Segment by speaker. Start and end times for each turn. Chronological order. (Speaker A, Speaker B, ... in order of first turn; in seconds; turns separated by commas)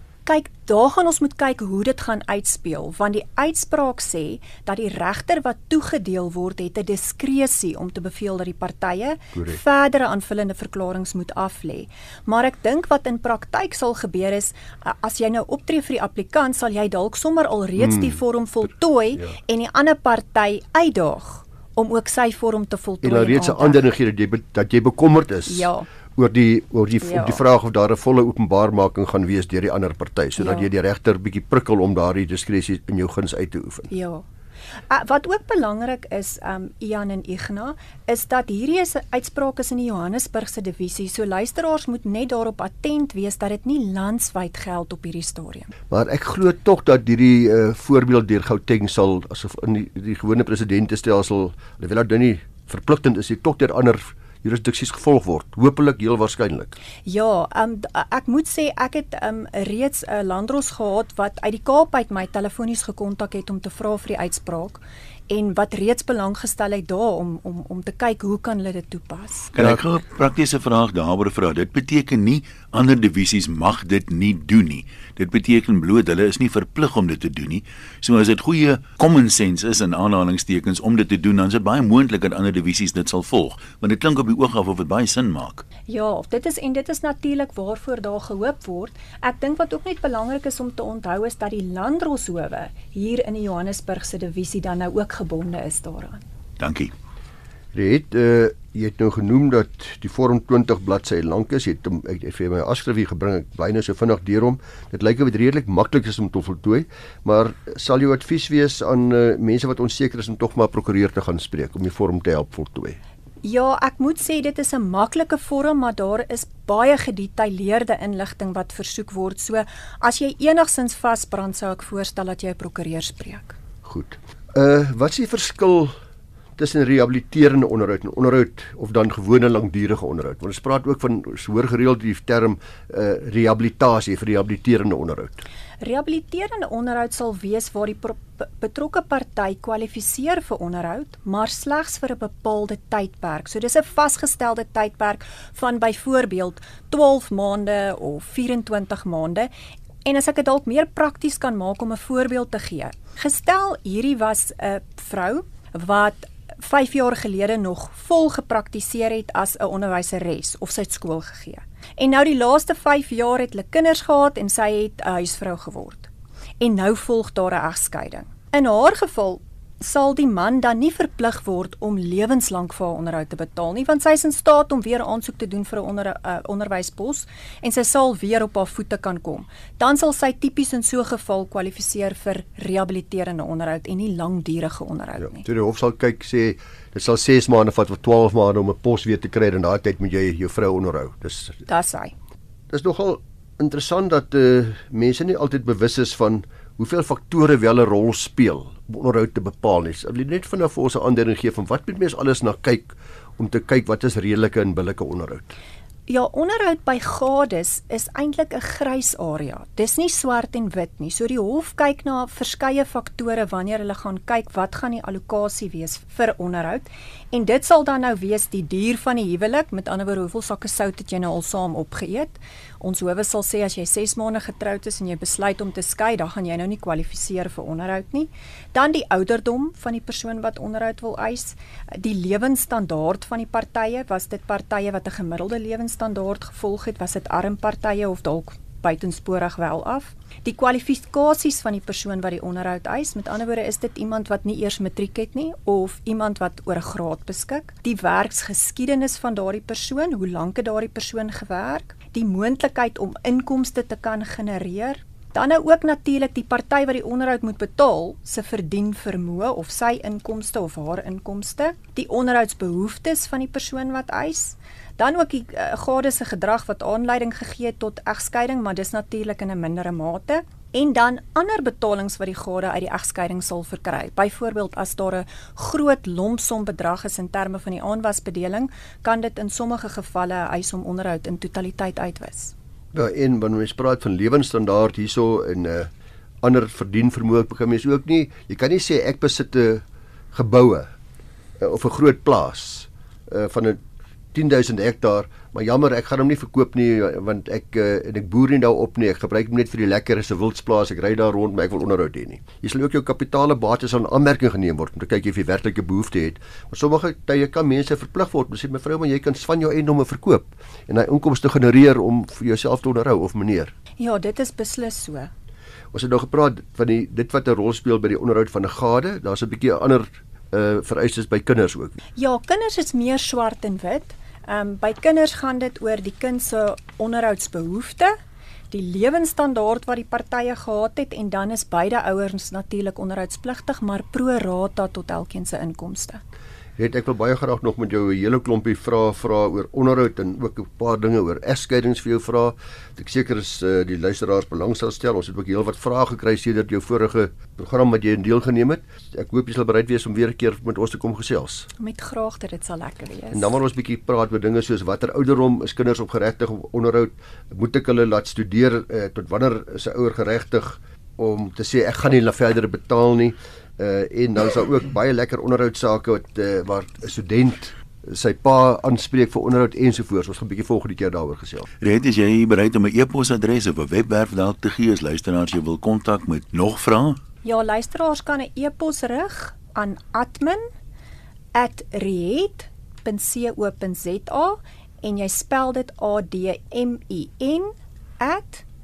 Speaker A: 0.2-23.9, Speaker B: 17.8-18.1, Speaker B: 23.0-33.9, Speaker A: 25.5-25.9, Speaker A: 27.0-27.4, Speaker A: 30.4-30.7, Speaker A: 33.9-34.2, Speaker A: 34.9-45.7, Speaker B: 45.9-56.8, Speaker A: 57.0-69.5, Speaker C: 69.5-85.6, Speaker A: 85.9-96.2, Speaker C: 96.6-96.9, Speaker B: 97.7-113.0, Speaker A: 113.4-123.6, Speaker B: 123.8-125.9, Speaker B: 126.6-135.4, Speaker A: 135.8-149.5, Speaker A: 150.0-166.1, Speaker A: 166.6-185.4, Speaker B: 185.2-191.6, Speaker A: 191.7-192.1, Speaker B: 192.7-205.6, Speaker A: 206.1-282.5, Speaker B: 282.9-285.9, Speaker B: 286.4-290.9, Speaker B: 291.6-293.8, Speaker B: 294.3-313.7, Speaker A: 314.0-315.3, Speaker B: 315.9-322.0, Speaker A: 322.1-328.1, Speaker A: 328.7-336.2, Speaker B: 336.8-351.7, Speaker A: 351.8-353.5, Speaker B: 353.3-371.6, Speaker C: 371.8-377.2, Speaker A: 377.4-380.6, Speaker A: 381.5-388.6